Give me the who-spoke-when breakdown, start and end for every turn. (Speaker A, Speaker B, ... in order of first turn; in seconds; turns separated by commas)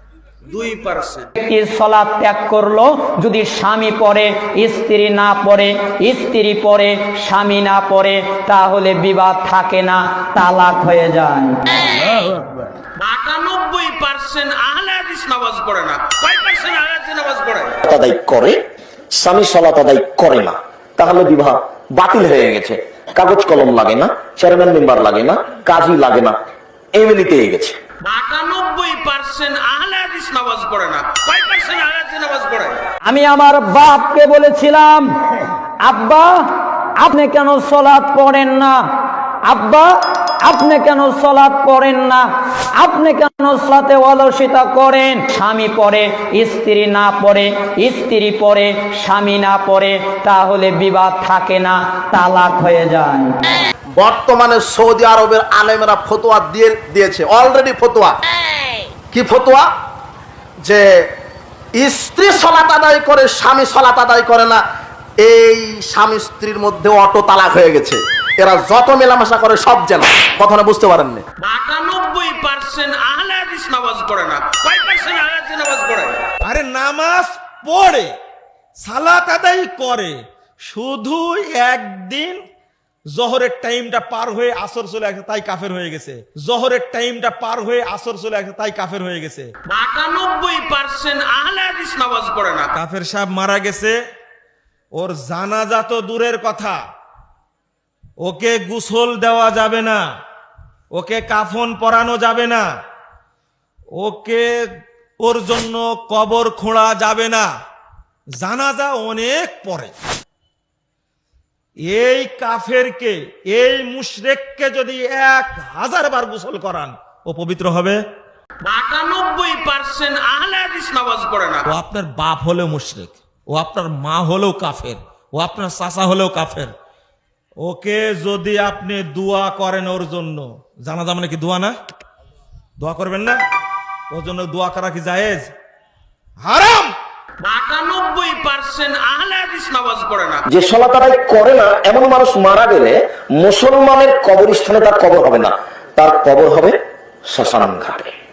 Speaker A: 0.4-1.3, Speaker B: 1.4-11.6, Speaker A: 12.9-17.8, Speaker C: 17.8-18.6, Speaker C: 19.1-26.4, Speaker C: 26.9-27.8, Speaker A: 28.0-32.8, Speaker B: 33.0-35.1, Speaker B: 35.8-36.5, Speaker B: 37.0-38.8, Speaker B: 39.5-39.9, Speaker B: 40.4-42.3, Speaker B: 42.8-53.3, Speaker D: 53.9-58.2, Speaker D: 59.1-59.7, Speaker D: 61.7-64.6, Speaker D: 65.2-71.2, Speaker A: 71.4-76.2, Speaker E: 76.4-78.1, Speaker E: 78.8-80.2, Speaker E: 80.7-82.4, Speaker E: 83.1-89.5, Speaker A: 89.7-92.7, Speaker E: 92.7-94.0, Speaker E: 94.9-96.8, Speaker E: 98.2-100.0, Speaker E: 100.9-102.6, Speaker E: 104.0-104.4, Speaker E: 105.2-107.5, Speaker E: 108.4-109.9, Speaker E: 111.8-118.0, Speaker A: 118.6-121.7, Speaker E: 121.7-126.7, Speaker E: 127.6-131.7, Speaker E: 132.8-133.4, Speaker E: 134.1-135.4, Speaker E: 136.5-136.9, Speaker A: 137.4-140.4, Speaker C: 140.5-148.1